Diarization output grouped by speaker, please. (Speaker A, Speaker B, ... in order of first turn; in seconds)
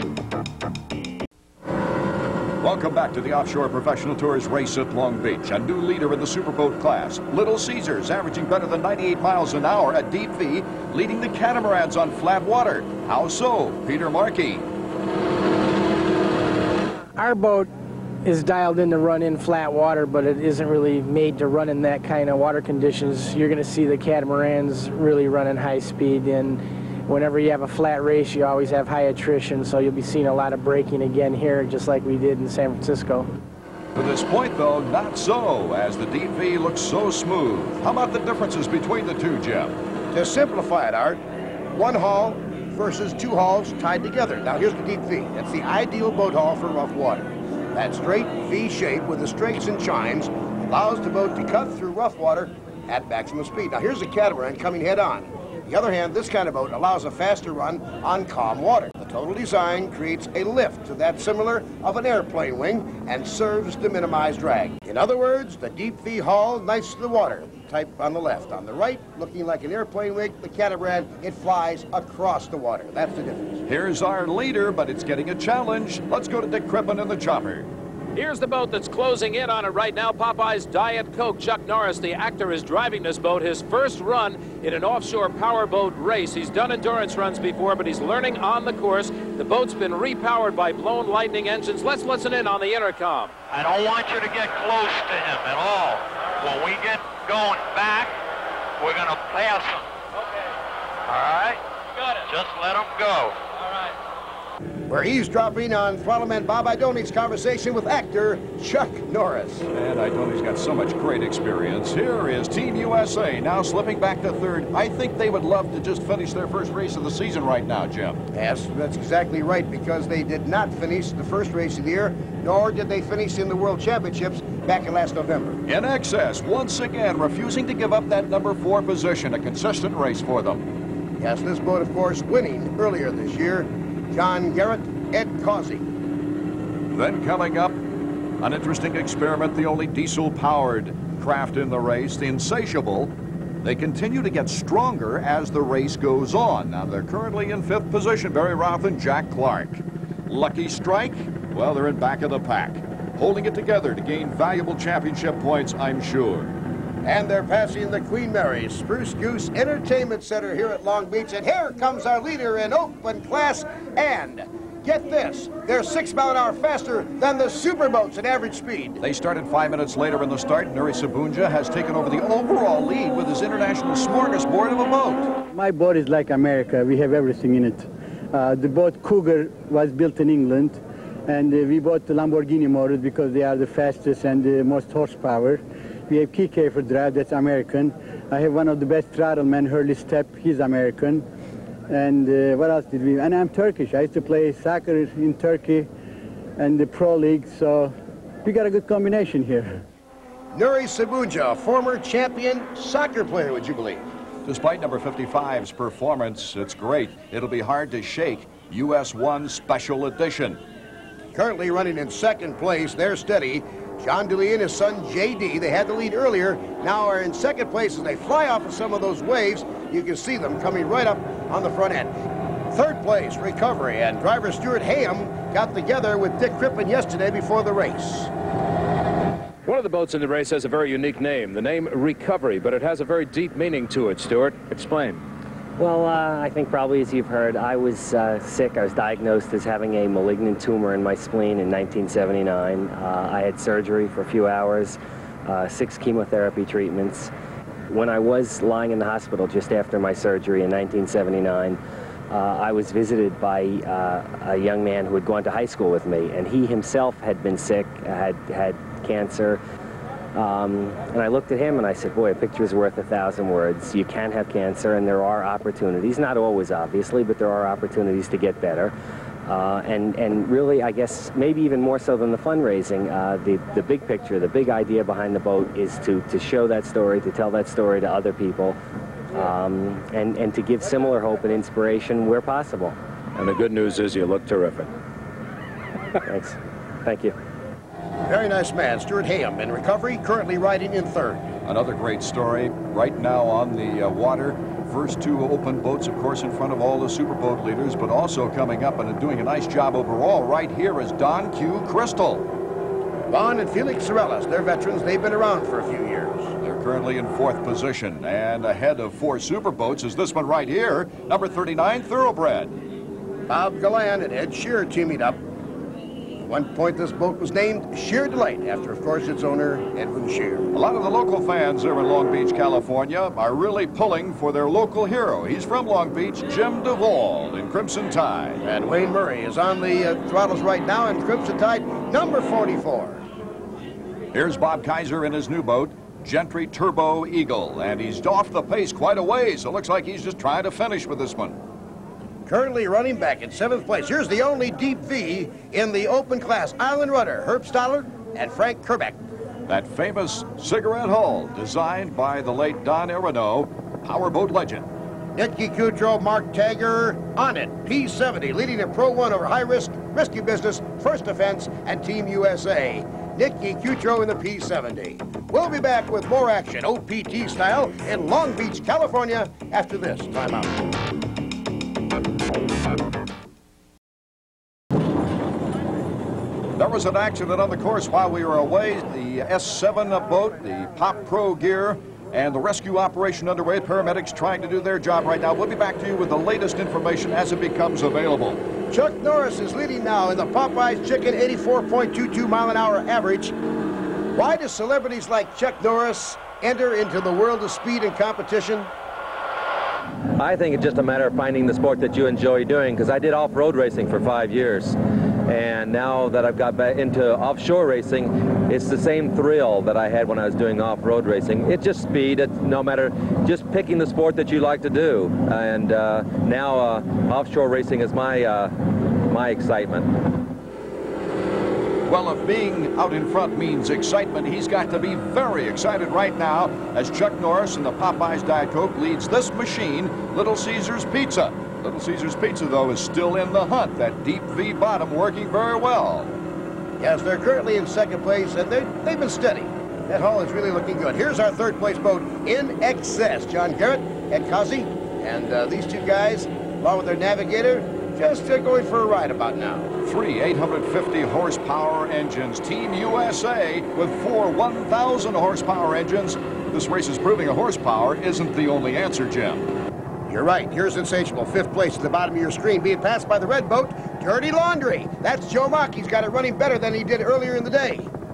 Speaker A: 2.6-14.7, 33.9-39.7, 73.7-77.7, 109.7-118.2, 125.7-130.6, 136.9-137.8, 138.4-156.5, 169.0-175.3, 204.4-210.6, 291.6-302.5, 306.6-312.7, 320.7-328.6, 334.3-341.6, 349.7-354.9, 376.8-388.6, 422.1-436.4, 450.0-459.7
Speaker B: 17.1-17.7, 18.2-33.3
Speaker C: 40.1-41.2, 41.7-73.6, 104.9-109.7, 118.3-125.6, 131.2-135.9, 157.0-169.0, 200.5-204.0, 211.3-222.1, 222.7-228.3, 288.2-291.4, 303.3-306.5, 313.5-315.4, 316.4-320.7, 328.6-333.2, 342.4-349.2, 355.3-370.7, 388.9-393.5, 394.3-398.9, 437.0-449.9, 460.3-468.1
Speaker D: 78.2-93.3, 229.6-235.2, 283.4-284.9
Speaker E: 93.5-98.2, 98.8-99.9, 101.1-103.4
Speaker F: 175.5-191.2, 191.9-195.9, 196.6-197.9, 198.4-199.8
Speaker G: 235.8-247.3, 247.9-251.8, 252.3-259.6, 260.4-268.9, 269.5-278.8, 279.3-283.0, 286.2-287.4
Speaker H: 400.4-420.2